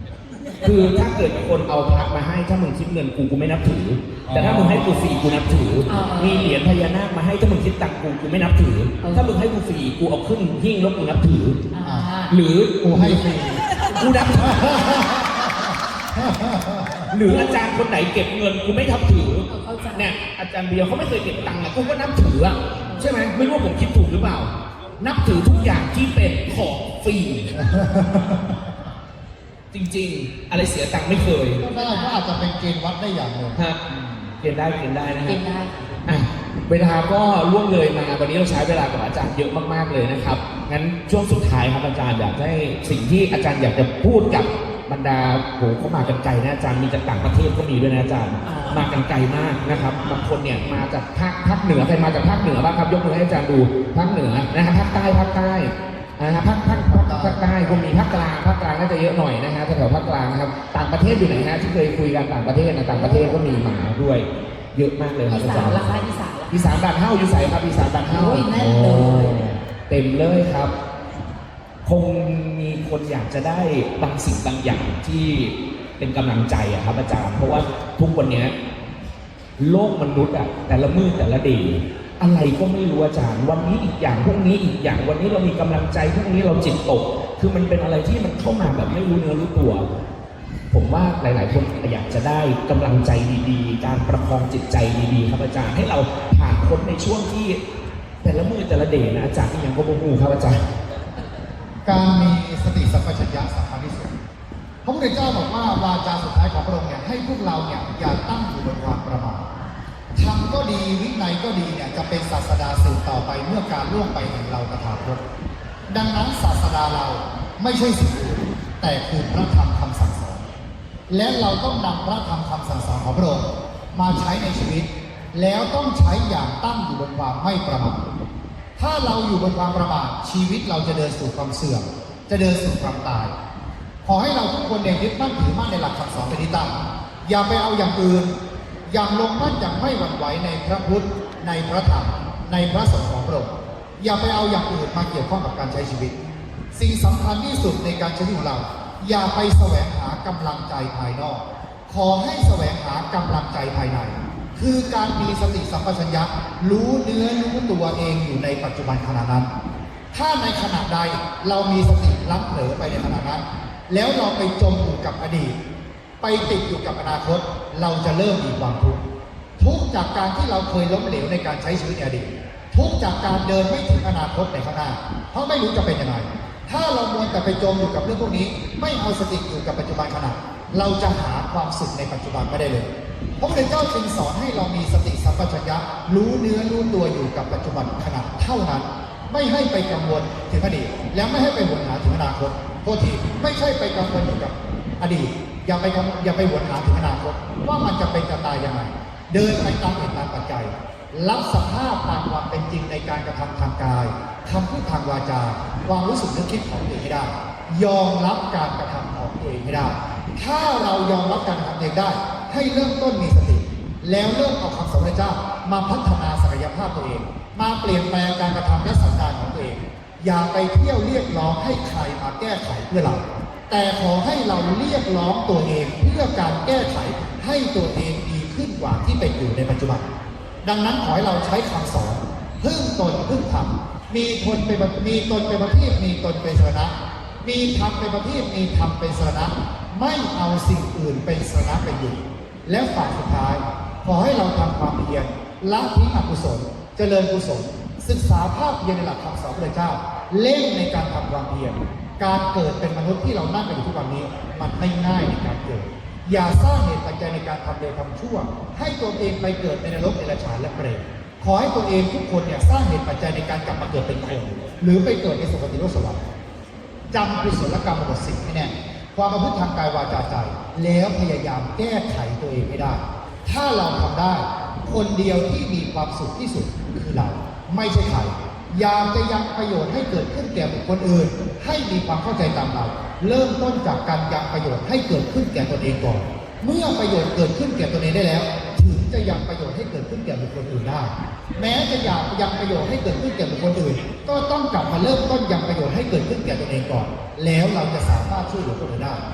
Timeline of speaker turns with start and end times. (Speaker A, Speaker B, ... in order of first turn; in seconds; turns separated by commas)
Speaker A: 0.6-11.7, Speaker B: 4.3-4.8, Speaker C: 5.9-6.6, Speaker C: 9.0-9.3, Speaker C: 11.7-12.4, Speaker B: 11.8-12.1, Speaker A: 12.3-13.2, Speaker B: 12.8-13.6, Speaker A: 13.8-15.1, Speaker B: 14.4-17.1, Speaker A: 17.1-27.6, Speaker C: 17.3-17.7, Speaker C: 19.5-20.1, Speaker C: 22.9-23.1, Speaker B: 27.6-28.5, Speaker A: 29.7-31.6, Speaker B: 31.6-33.6, Speaker C: 31.6-32.2, Speaker A: 33.5-35.4, Speaker C: 35.2-36.0, Speaker A: 36.0-65.9, Speaker C: 48.4-48.8, Speaker B: 56.7-57.9, Speaker C: 62.9-63.4, Speaker C: 65.3-66.6, Speaker A: 66.5-70.7, Speaker C: 68.1-69.5, Speaker A: 71.8-78.5, Speaker A: 79.6-89.9, Speaker A: 90.7-97.6, Speaker A: 98.2-100.6, Speaker B: 101.8-104.1, Speaker B: 104.8-109.5, Speaker B: 110.2-115.2, Speaker B: 115.9-120.5, Speaker B: 121.1-128.0, Speaker B: 128.8-133.3, Speaker B: 134.0-138.3, Speaker B: 138.9-146.2, Speaker B: 146.7-159.5, Speaker B: 160.1-165.5, Speaker B: 166.2-169.1, Speaker B: 169.6-230.1, Speaker B: 230.6-266.2, Speaker B: 267.1-299.2